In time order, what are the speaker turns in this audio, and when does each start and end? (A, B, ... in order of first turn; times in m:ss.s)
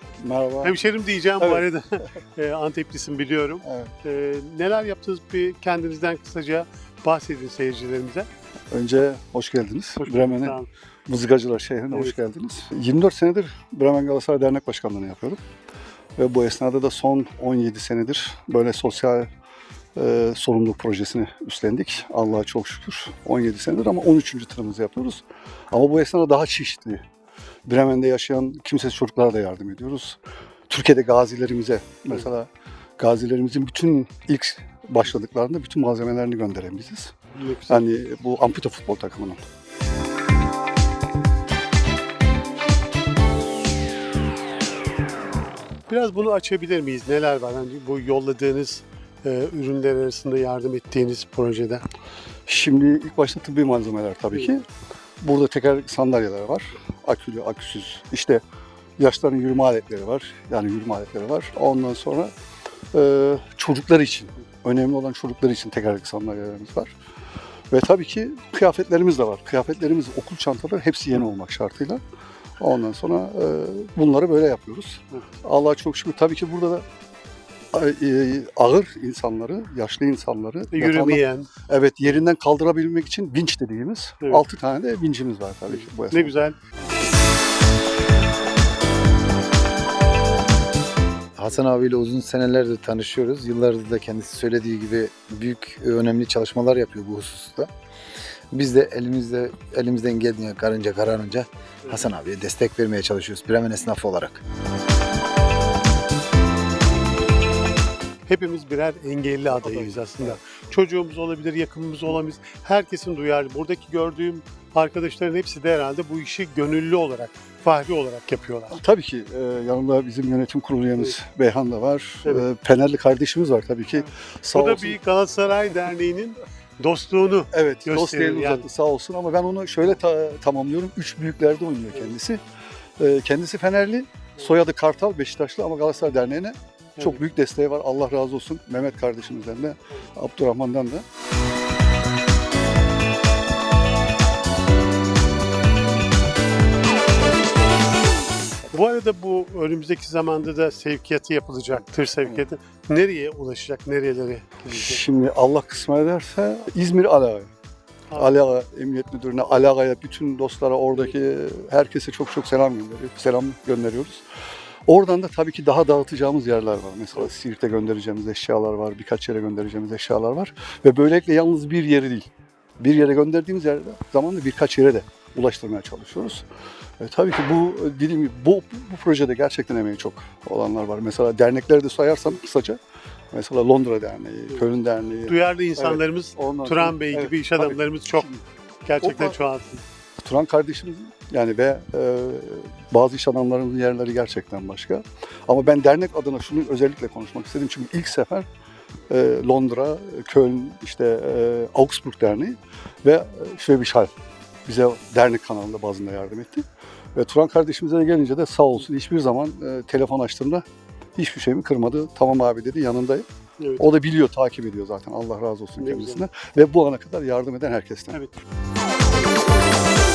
0:00.2-0:00.8 A
0:00.6-0:08.3 B
0:01.4-0:01.7 A
0:03.6-0:03.9 A
0:08.7-0:15.4 A
0:10.0-0:10.7 B
0:11.9-0:12.2 B
0:16.2-0:19.3 A
0:20.0-0:27.0 A
0:27.7-0:30.2 A
0:30.7-0:32.5 A
0:33.0-0:37.1 A
0:37.4-0:37.8 B
0:37.7-0:39.4 A
0:45.9-0:51.8 B
0:52.5-0:54.6 A
0:55.2-0:58.4 A
0:59.0-1:02.3 A
1:02.9-1:06.9 A
1:07.7-1:12.0 A
1:12.6-1:16.8 A
1:17.7-1:26.4 A
1:20.7-1:21.5 B
1:25.7-1:26.6 B
1:31.3-1:37.7 C
1:38.5-1:44.4 C
1:48.2-1:58.8 B
1:49.6-1:50.3 A
1:58.7-2:05.0 A
2:04.5-2:08.7 B
2:07.5-2:12.4 A
2:13.0-2:21.0 A
2:17.0-2:17.2 B
2:28.7-2:35.0 B
2:34.7-2:37.5 A
2:38.1-2:38.4 B
2:38.1-2:44.2 A
2:44.9-2:52.3 A
2:52.8-2:56.4 A
2:57.0-3:02.8 A
3:03.3-3:08.4 A
3:05.3-3:08.3 B
3:08.8-3:09.8 B
3:09.0-3:09.4 A
3:10.2-3:18.4 A
3:19.1-3:24.1 A
3:24.6-3:26.6 A
3:27.2-3:30.6 A
3:31.2-3:33.2 A
3:33.6-3:33.8 B
3:33.8-3:38.2 A
3:35.8-3:36.2 B